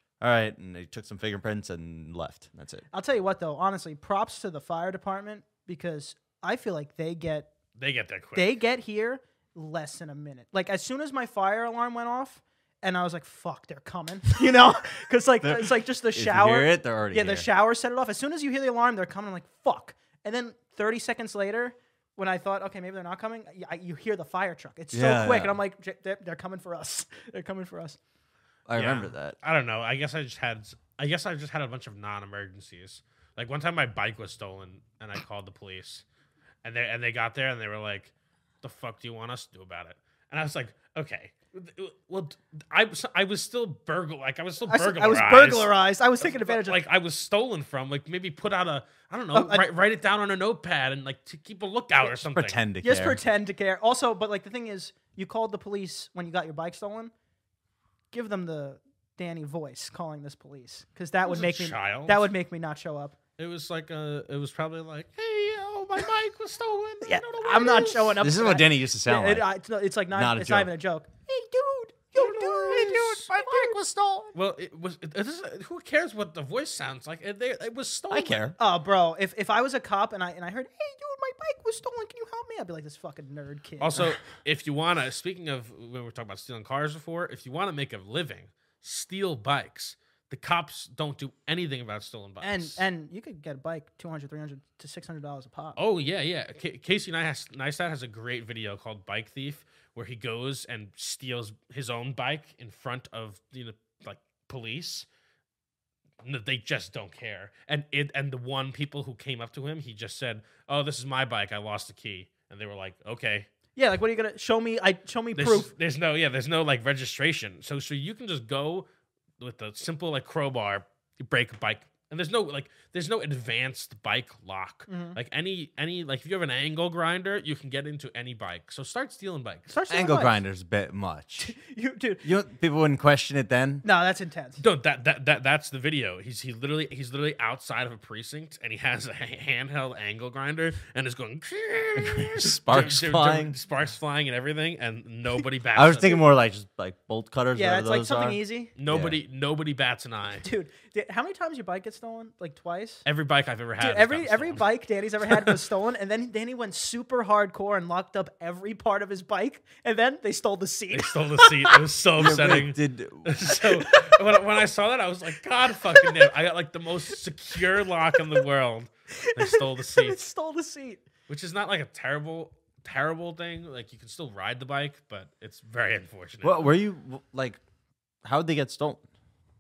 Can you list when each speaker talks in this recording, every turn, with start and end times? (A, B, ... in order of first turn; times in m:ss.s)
0:00.2-0:02.9 A
0:02.9-0:07.5 B
0:07.8-0:08.6 C
0:08.4-0:28.0 B
0:15.4-0:17.5 A
0:24.9-0:25.6 A
0:28.7-0:29.4 A
0:28.7-0:36.0 C
0:36.6-0:52.6 C
0:44.7-0:46.8 B
0:49.3-0:49.7 B
0:52.2-0:53.2 A
0:52.8-0:57.1 B
0:58.1-1:03.2 B
1:01.2-1:02.3 C
1:03.4-1:08.2 C
1:07.0-1:13.8 B
1:08.2-1:09.5 A
1:10.1-1:10.7 A
1:12.2-1:14.3 A
1:12.7-1:13.2 C
1:14.4-1:18.5 C
1:18.1-1:18.6 A
1:18.6-1:24.1 B
1:23.8-1:32.8 C
1:32.4-1:35.8 B
1:35.8-1:45.1 C
1:46.2-1:53.5 C
1:53.8-1:55.7 B
1:55.4-1:58.9 C
1:59.4-2:09.7 C
2:04.9-2:05.2 B
2:09.7-2:10.4 B
2:09.9-2:11.6 A
2:11.4-2:12.3 B
2:12.2-2:13.8 A
2:13.8-2:14.6 B
2:14.6-2:26.2 C
2:22.0-2:23.6 A
2:25.7-2:29.2 A
2:27.6-2:28.7 B
2:28.8-2:30.5 C
2:30.4-2:33.0 B
2:33.1-2:34.7 C
2:33.8-2:41.8 B
2:35.2-2:35.6 C
2:40.9-2:50.2 C
2:42.2-2:43.6 A
2:43.8-2:44.2 B
2:45.7-2:46.3 B
2:48.1-2:48.4 B
2:49.1-2:51.0 B
2:51.3-2:56.7 C
2:56.4-2:57.6 A
2:58.2-2:59.0 A